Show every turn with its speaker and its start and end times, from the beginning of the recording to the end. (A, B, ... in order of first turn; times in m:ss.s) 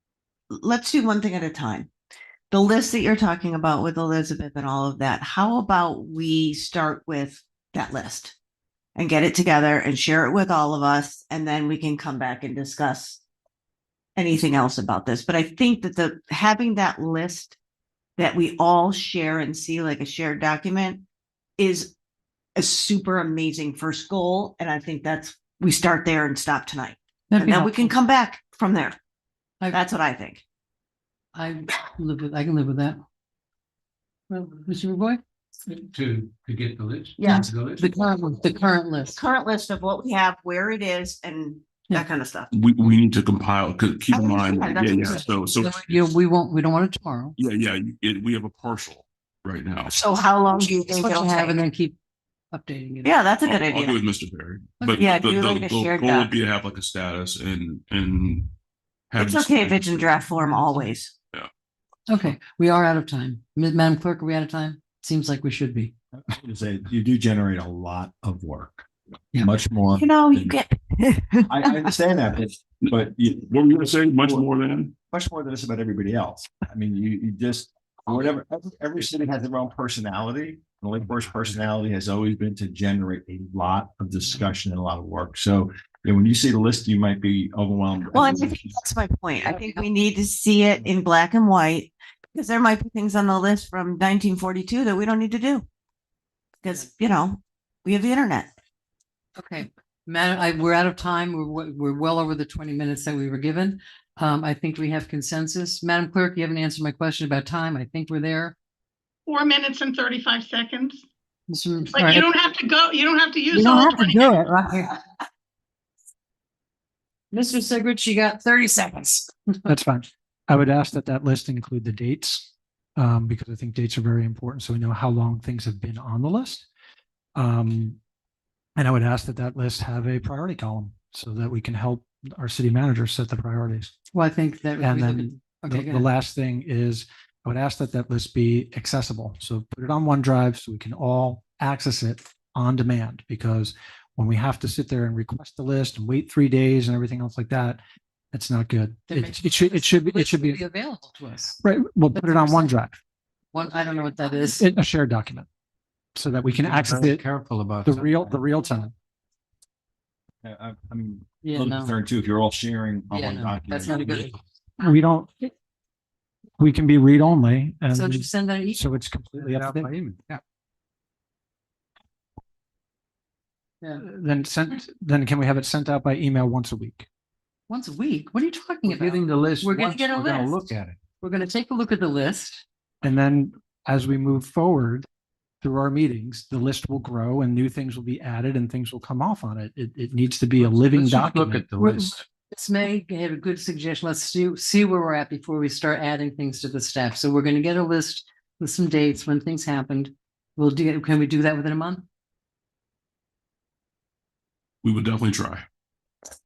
0:00.5-0:01.9 A
0:02.5-0:08.4 A
0:09.0-0:13.2 A
0:14.2-0:17.6 A
0:18.2-0:21.0 A
0:21.6-0:21.9 A
0:22.6-0:29.0 A
0:27.3-0:28.0 B
0:29.7-0:30.4 A
0:31.3-0:33.0 B
0:34.3-0:35.2 B
0:35.7-0:37.9 C
0:37.2-0:37.5 A
0:37.3-0:39.2 B
0:39.2-0:42.5 A
0:42.5-0:46.1 D
0:44.1-0:45.3 A
0:45.1-0:47.4 B
0:47.4-0:50.0 D
0:49.9-0:51.6 A
0:51.0-0:52.0 B
0:52.5-0:53.2 B
0:53.0-0:54.0 A
0:53.4-0:58.5 D
0:54.9-0:56.4 A
0:59.1-1:00.3 D
0:59.2-1:01.1 A
1:02.1-1:05.9 B
1:06.2-1:10.6 E
1:09.9-1:11.9 A
1:11.5-1:13.5 E
1:12.8-1:14.9 D
1:14.2-1:14.4 E
1:15.1-1:28.8 E
1:28.1-1:35.6 A
1:29.5-1:29.9 B
1:36.6-1:38.5 A
1:39.4-1:48.6 B
1:49.3-1:51.0 F
1:51.5-1:52.3 B
1:51.9-1:54.3 F
1:53.5-1:55.0 B
1:57.3-1:59.7 B
1:59.7-2:06.7 G
2:07.4-2:08.0 G
2:08.8-2:13.9 G
2:14.1-2:16.1 B
2:14.8-2:27.8 G
2:28.3-2:30.6 G
2:29.1-2:31.6 B
2:31.6-2:33.0 G
2:32.1-2:32.7 B
2:33.5-2:34.7 B
2:34.6-2:35.5 G
2:36.2-2:37.2 G
2:36.5-2:38.3 C
2:37.8-2:38.9 G
2:40.4-2:44.3 E
2:41.4-2:41.9 B
2:43.1-2:44.4 B
2:43.9-2:44.3 C
2:44.8-2:45.5 G
2:46.6-2:49.9 G
2:47.9-2:48.8 B
2:49.3-2:50.4 C
2:54.0-2:57.1 G
2:57.7-3:00.6 B
2:58.8-3:01.0 C
3:01.2-3:02.6 B
3:03.0-3:05.1 G
3:05.6-3:11.7 G
3:10.6-3:12.2 C
3:11.8-3:22.0 B
3:24.8-3:25.6 D